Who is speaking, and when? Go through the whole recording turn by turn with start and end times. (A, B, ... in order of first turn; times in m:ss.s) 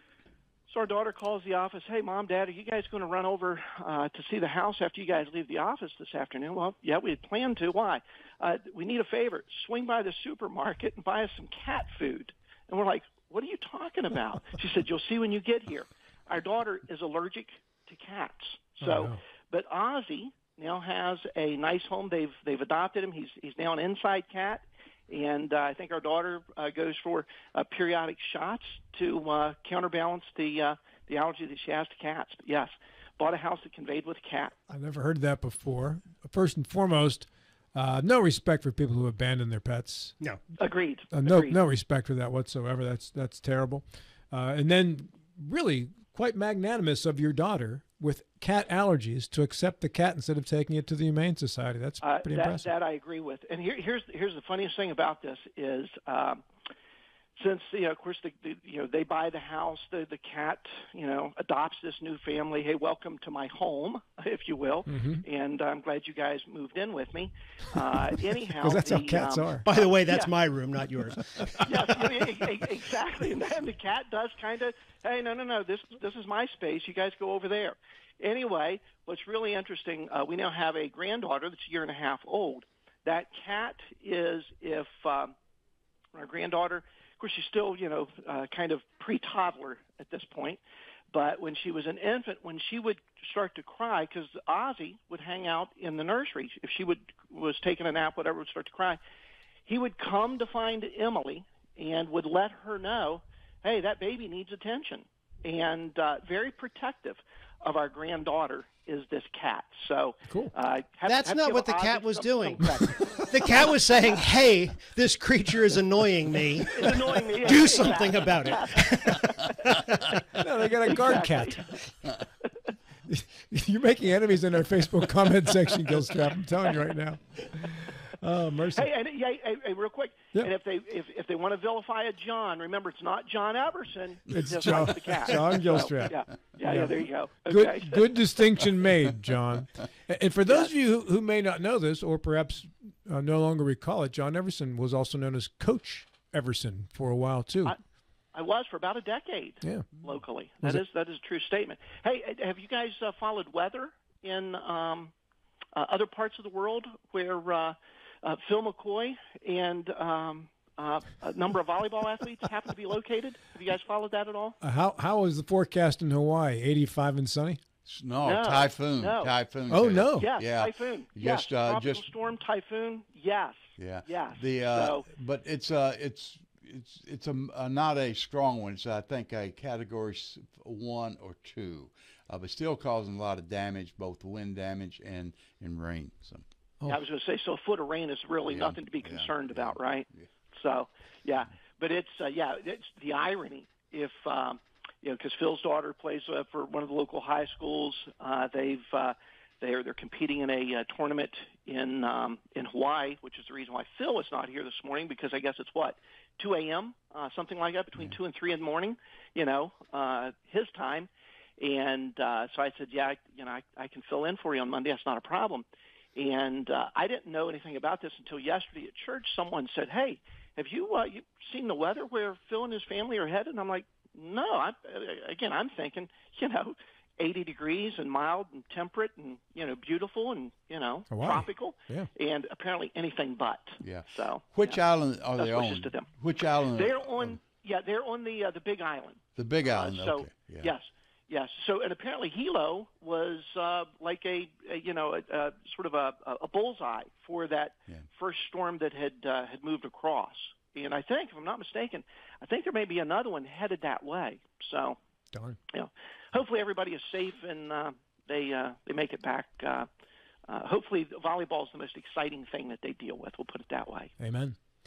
0:00.7-0:34.6 A
0:18.8-0:19.2 B
0:34.7-0:40.2 B
0:40.6-0:41.6 A
0:41.1-0:52.7 B
0:52.0-0:56.4 A
0:57.4-1:10.3 A
1:04.9-1:05.2 B
1:08.6-1:09.7 B
1:09.6-1:12.1 C
1:11.6-1:25.3 A
1:26.1-1:30.6 A
1:31.1-1:39.0 A
1:39.7-1:54.0 A
1:51.1-2:00.2 C
1:56.7-1:59.8 A
2:00.4-2:01.8 B
2:00.9-2:01.8 A
2:03.1-2:08.8 B
2:08.7-2:18.1 A
2:14.3-2:27.8 B
2:28.3-2:35.1 A
2:29.6-2:29.9 B
2:35.7-2:44.6 A
2:44.6-2:47.6 B
2:47.9-2:52.0 D
2:48.2-2:49.3 A
2:49.7-2:50.3 B
2:50.2-2:55.1 A
2:53.8-3:06.4 D
3:06.9-3:54.8 A
3:08.5-3:10.2 D
3:51.1-3:52.1 B
3:53.8-3:57.4 D
3:55.4-3:56.1 A
3:56.7-4:15.0 A
3:59.4-4:00.7 D
4:15.3-4:15.6 B
4:15.7-4:19.9 A
4:20.5-4:24.1 A
4:24.2-4:24.6 B